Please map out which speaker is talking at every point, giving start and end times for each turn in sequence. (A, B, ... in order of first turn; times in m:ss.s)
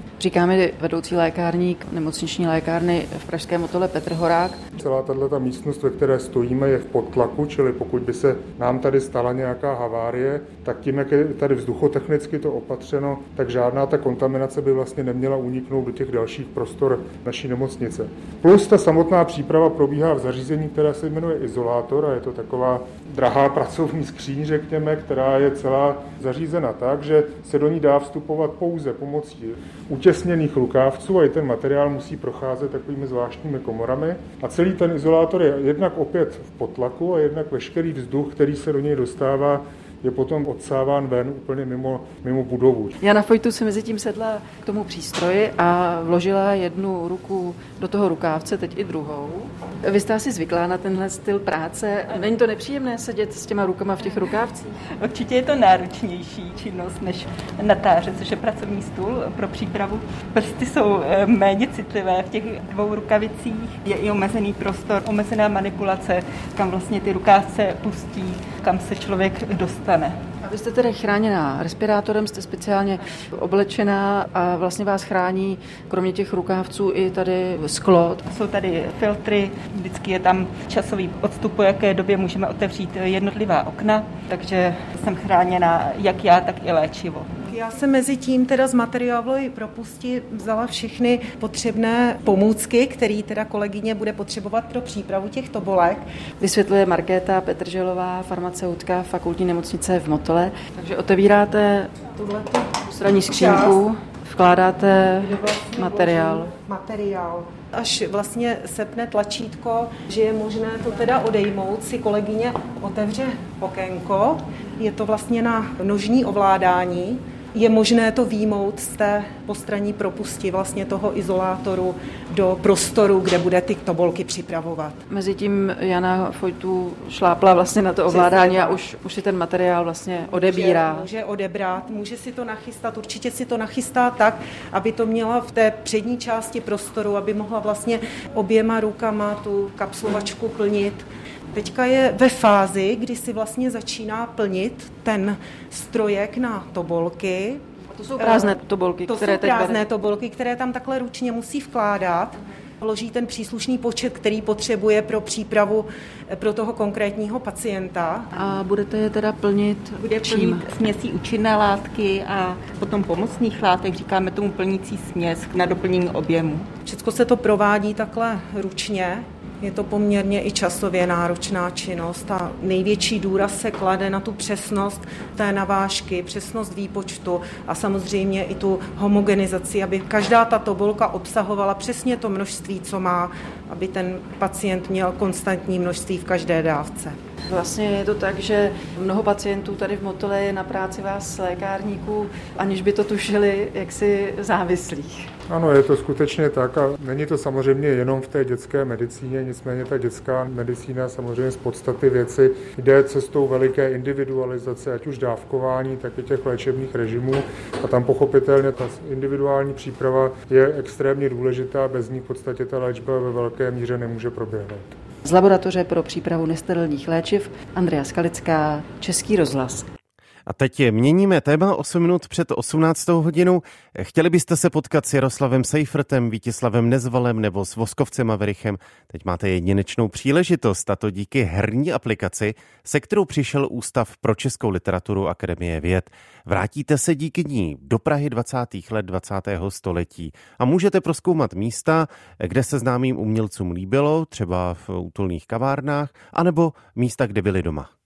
0:00.2-0:04.6 A
0:04.8-0:43.0 B
0:43.0-0:54.8 A
0:54.9-1:10.2 C
1:10.4-1:18.2 A
1:18.3-1:27.3 C
1:27.5-1:36.0 D
1:36.4-1:41.9 A
1:42.1-1:43.8 D
1:42.9-1:46.5 A
1:45.2-2:05.0 D
2:05.1-2:11.1 A
2:08.1-2:08.8 D
2:10.3-2:27.6 D
2:28.0-2:29.8 A
2:28.2-2:38.3 D
2:38.4-2:40.7 A
2:40.0-2:46.7 C
2:46.8-3:07.2 D
3:07.5-3:15.3 A
3:15.5-3:34.9 B
3:35.2-3:39.9 A
3:40.5-4:07.9 E